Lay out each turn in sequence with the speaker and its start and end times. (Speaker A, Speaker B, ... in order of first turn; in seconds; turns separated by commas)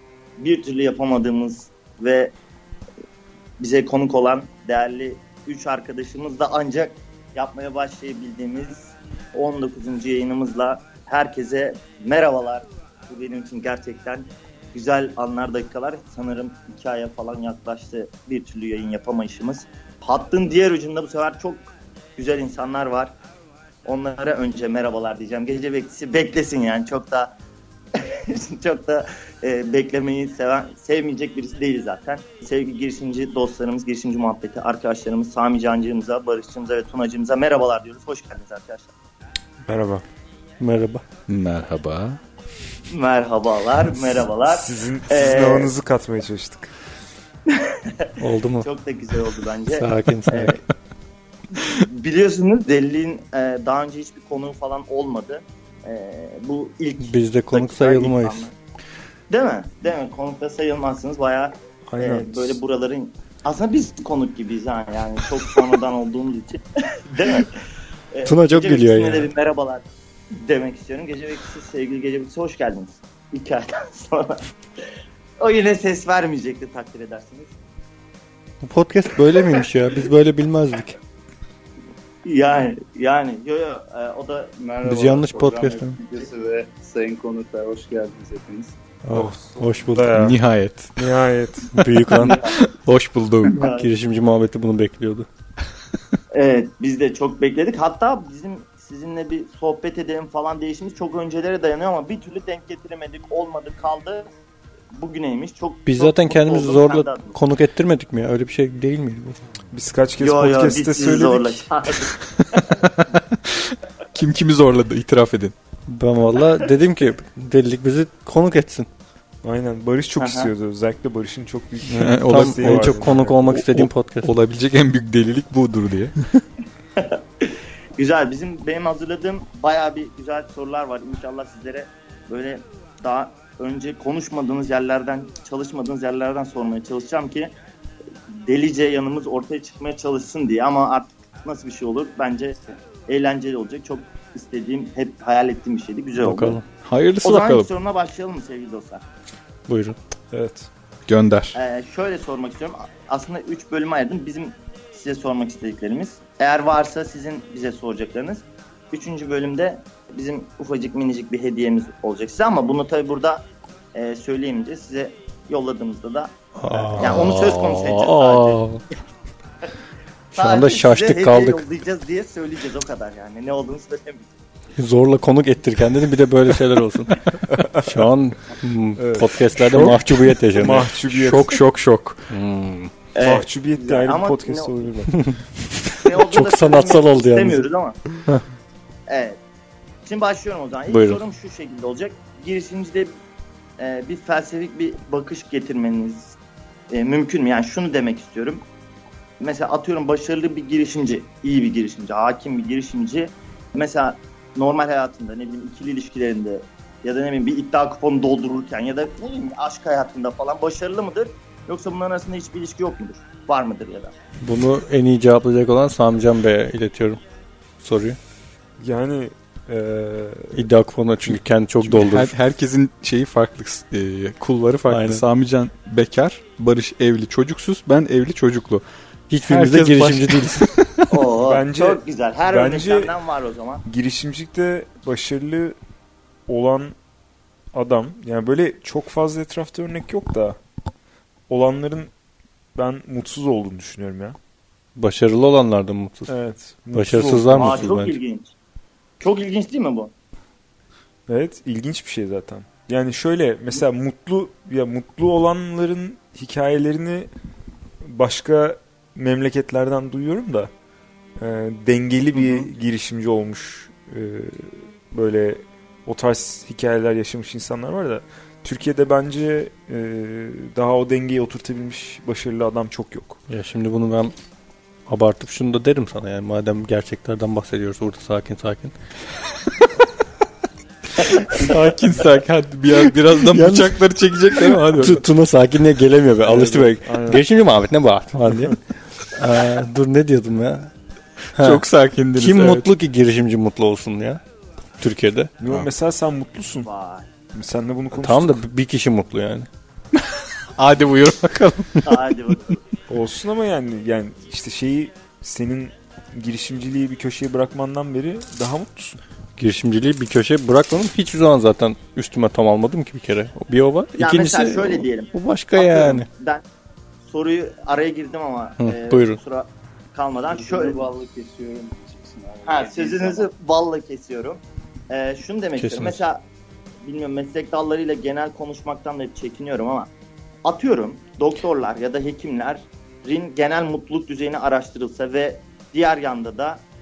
Speaker A: 0.4-2.3, Speaker A: 3.6-23.1, Speaker A: 23.9-27.4, Speaker A: 27.9-38.9, Speaker B: 39.6-40.0, Speaker C: 40.6-41.0, Speaker D: 41.3-42.2, Speaker A: 42.9-45.7, Speaker B: 44.5-46.7, Speaker A: 47.5-50.6, Speaker C: 48.2-48.7, Speaker C: 49.7-50.6, Speaker A: 51.5-58.5, Speaker C: 57.0-58.5, Speaker A: 59.3-67.6, Speaker B: 61.9-62.6, Speaker A: 68.1-74.4, Speaker C: 68.3-69.3, Speaker A: 75.4-77.5, Speaker C: 78.6-81.0, Speaker A: 82.2-84.5, Speaker E: 84.6-88.8, Speaker C: 84.8-86.0, Speaker C: 89.0-90.2, Speaker B: 89.1-90.4, Speaker D: 90.2-90.9, Speaker B: 91.0-91.8, Speaker C: 91.7-92.5, Speaker D: 92.2-93.6, Speaker A: 93.6-93.9, Speaker C: 93.6-95.3, Speaker A: 96.3-104.3, Speaker A: 104.9-107.4, Speaker C: 105.9-109.4, Speaker B: 109.7-111.7, Speaker A: 110.2-112.7, Speaker D: 112.5-115.5, Speaker C: 115.9-118.9, Speaker B: 119.4-123.6, Speaker A: 120.2-120.5, Speaker C: 121.9-124.3, Speaker D: 122.0-126.4, Speaker A: 127.0-137.5, Speaker A: 138.3-146.6, Speaker C: 146.2-146.6, Speaker D: 146.8-147.7, Speaker A: 147.2-149.0, Speaker C: 149.7-150.0, Speaker B: 150.3-150.7, Speaker D: 151.1-151.6, Speaker A: 151.6-168.6, Speaker C: 166.6-168.8, Speaker D: 167.0-167.9, Speaker C: 170.3-171.6, Speaker A: 170.3-174.3, Speaker C: 174.8-180.9, Speaker B: 177.5-178.1, Speaker B: 179.0-179.9, Speaker D: 179.7-180.0, Speaker B: 180.5-181.6, Speaker D: 181.1-182.3, Speaker C: 182.3-182.9, Speaker A: 183.2-184.7, Speaker B: 183.2-185.3, Speaker C: 185.1-187.6, Speaker A: 186.0-188.0, Speaker A: 189.1-189.4, Speaker A: 190.1-193.1, Speaker C: 190.9-191.2, Speaker A: 193.8-196.4, Speaker A: 196.9-198.6, Speaker A: 199.4-214.1, Speaker C: 214.4-217.2, Speaker C: 217.8-218.2, Speaker B: 218.8-220.7, Speaker C: 220.5-222.3, Speaker D: 221.3-228.8, Speaker C: 224.9-225.2, Speaker C: 229.3-230.7, Speaker D: 229.4-231.1, Speaker A: 231.1-233.8, Speaker B: 231.3-233.1, Speaker B: 233.9-235.8, Speaker B: 236.5-236.9, Speaker B: 237.7-240.6, Speaker B: 241.5-242.1, Speaker B: 242.8-244.4, Speaker C: 245.0-246.3, Speaker B: 246.3-247.9, Speaker C: 246.9-248.2, Speaker A: 247.5-248.5, Speaker A: 249.2-250.1, Speaker B: 251.3-257.3, Speaker B: 258.0-260.7, Speaker B: 261.4-273.4, Speaker A: 262.4-262.7, Speaker C: 273.5-274.3, Speaker C: 275.1-278.9, Speaker D: 281.5-285.2, Speaker C: 283.4-283.9, Speaker C: 284.5-290.9, Speaker B: 286.4-287.4, Speaker C: 291.5-291.8, Speaker D: 291.6-292.9, Speaker C: 292.4-294.4, Speaker C: 295.0-295.5, Speaker B: 295.6-296.9, Speaker A: 296.8-297.3, Speaker B: 297.5-298.6, Speaker C: 298.1-299.7, Speaker D: 300.2-302.3, Speaker A: 302.0-302.9, Speaker B: 303.1-309.2, Speaker C: 309.6-316.3, Speaker A: 314.2-316.6, Speaker A: 317.2-321.1, Speaker C: 318.8-319.4, Speaker E: 320.5-323.5, Speaker A: 322.6-326.4, Speaker C: 325.8-326.2, Speaker A: 327.0-330.1, Speaker A: 330.6-336.8